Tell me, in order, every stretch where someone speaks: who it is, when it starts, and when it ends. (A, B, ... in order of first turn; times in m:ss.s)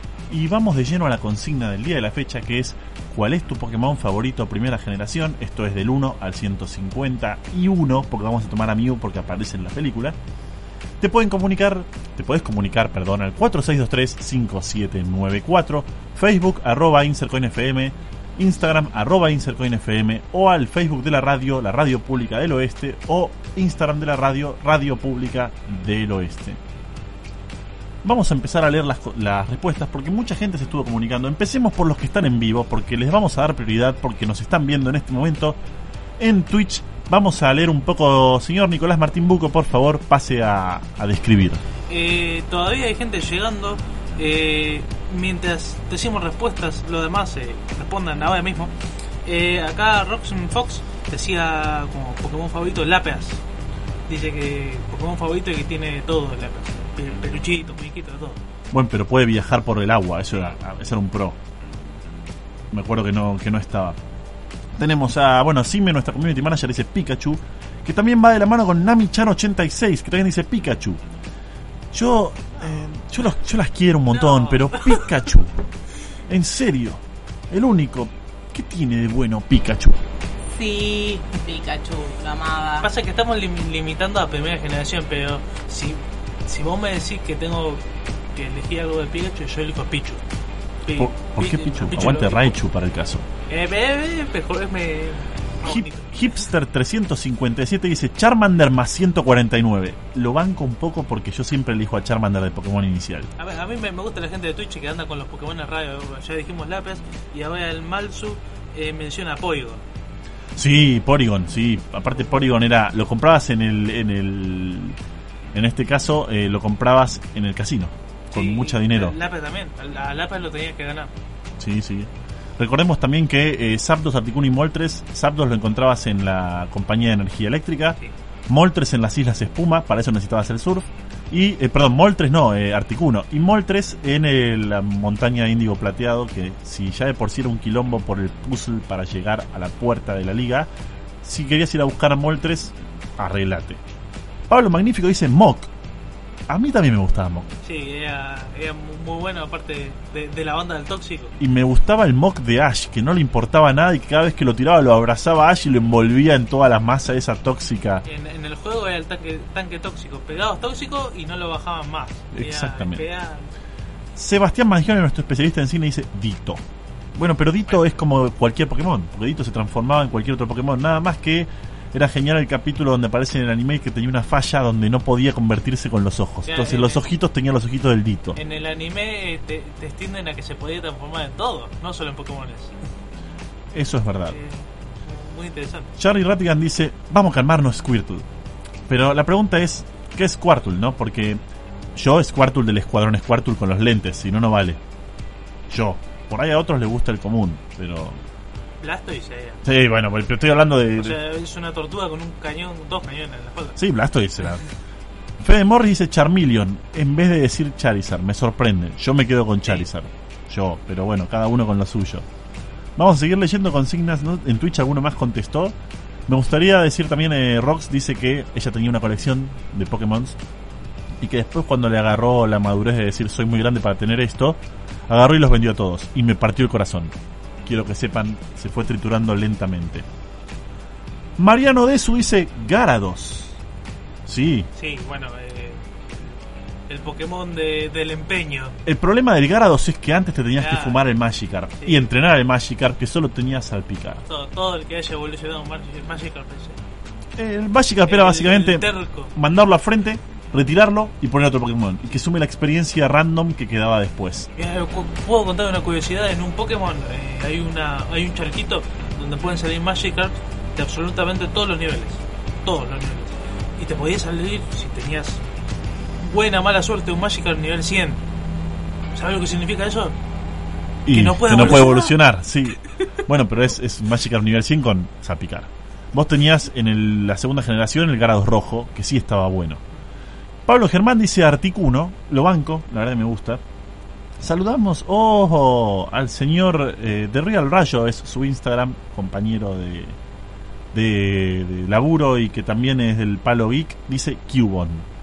0:00.3-0:10.2 A
0:11.0-0:26.6 A
0:28.0-0:35.6 A
0:36.2-0:41.6 A
0:41.9-0:48.7 B
0:49.3-0:53.4 B
0:54.1-0:58.4 B
0:58.7-1:01.4 A
1:02.7-1:04.0 A
1:04.8-1:11.0 A
1:11.9-1:15.6 A
1:12.6-1:12.8 B
1:14.1-1:15.1 B
1:16.3-1:20.0 A
1:20.4-1:22.9 C
1:22.8-1:27.8 B
1:28.4-1:30.2 B
1:30.8-1:32.5 B
1:31.0-1:33.3 A
1:33.5-1:36.4 B
1:35.6-1:43.3 A
1:43.4-1:49.8 B
1:50.6-1:55.0 A
1:55.5-1:59.2 A
1:58.3-2:01.1 B
2:01.6-2:08.0 A
2:08.5-2:20.7 A
2:21.2-2:23.8 A
2:24.5-2:25.7 A
2:26.5-2:27.5 A
2:27.6-2:31.3 B
2:31.4-2:38.0 A
2:38.1-2:43.5 B
2:42.3-2:43.0 A
2:44.2-2:46.6 A
2:47.2-2:58.4 A
2:56.4-2:57.0 B
2:58.4-3:02.8 B
3:03.7-3:04.4 A
3:04.3-3:05.9 B
3:06.0-3:08.2 A
3:08.9-3:11.4 A
3:12.0-3:14.8 A
3:15.7-3:18.2 A
3:18.8-3:19.6 B
3:19.6-3:21.2 A
3:21.0-3:23.8 B
3:23.8-3:24.6 A
3:25.4-3:32.3 A
3:33.0-3:35.8 A
3:36.3-3:40.4 A
3:41.2-3:47.1 A
3:47.6-3:50.1 A
3:51.4-3:53.6 A
3:54.3-3:54.7 A
3:54.8-3:58.8 B
3:58.8-4:04.2 A
4:00.6-4:01.0 B
4:01.8-4:02.1 B
4:04.3-4:06.8 B
4:07.4-4:14.5 A
4:08.1-4:09.3 B
4:14.6-4:25.4 B
4:26.2-4:28.2 B
4:29.1-4:30.2 B
4:31.1-4:39.8 A
4:31.1-4:32.2 B
4:40.7-4:43.6 A
4:44.4-4:50.2 A
4:50.9-4:55.1 A